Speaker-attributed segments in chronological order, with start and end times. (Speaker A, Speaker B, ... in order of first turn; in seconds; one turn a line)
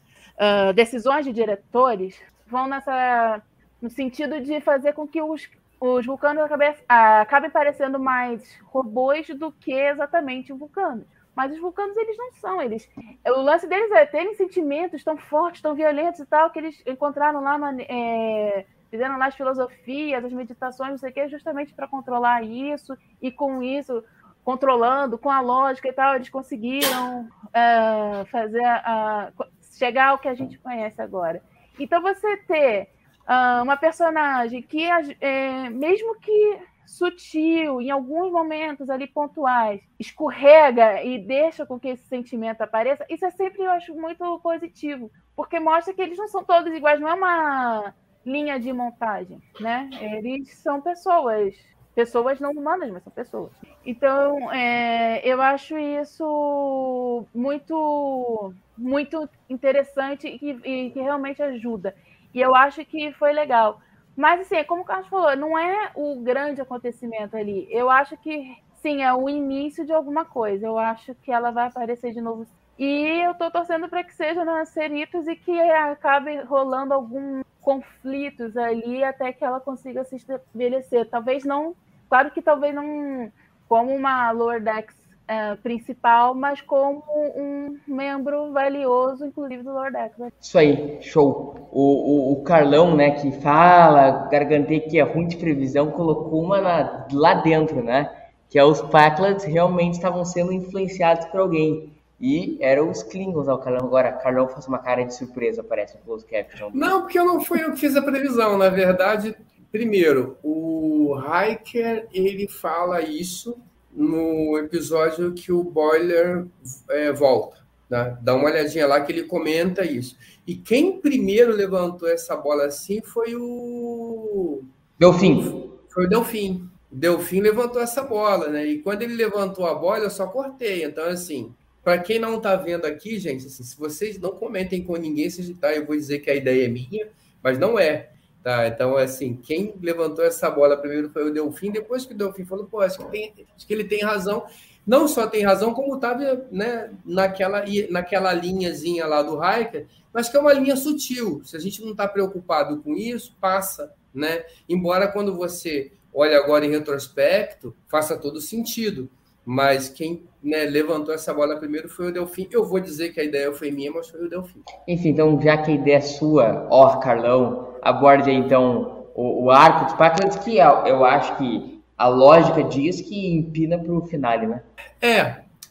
Speaker A: 0.4-90.3
Speaker B: 90.4-106.9
Speaker C: 106.7-124.6
Speaker B: 125.0-125.6
Speaker C: 125.3-164.7
Speaker B: 164.8-174.6
Speaker C: 175.0-175.4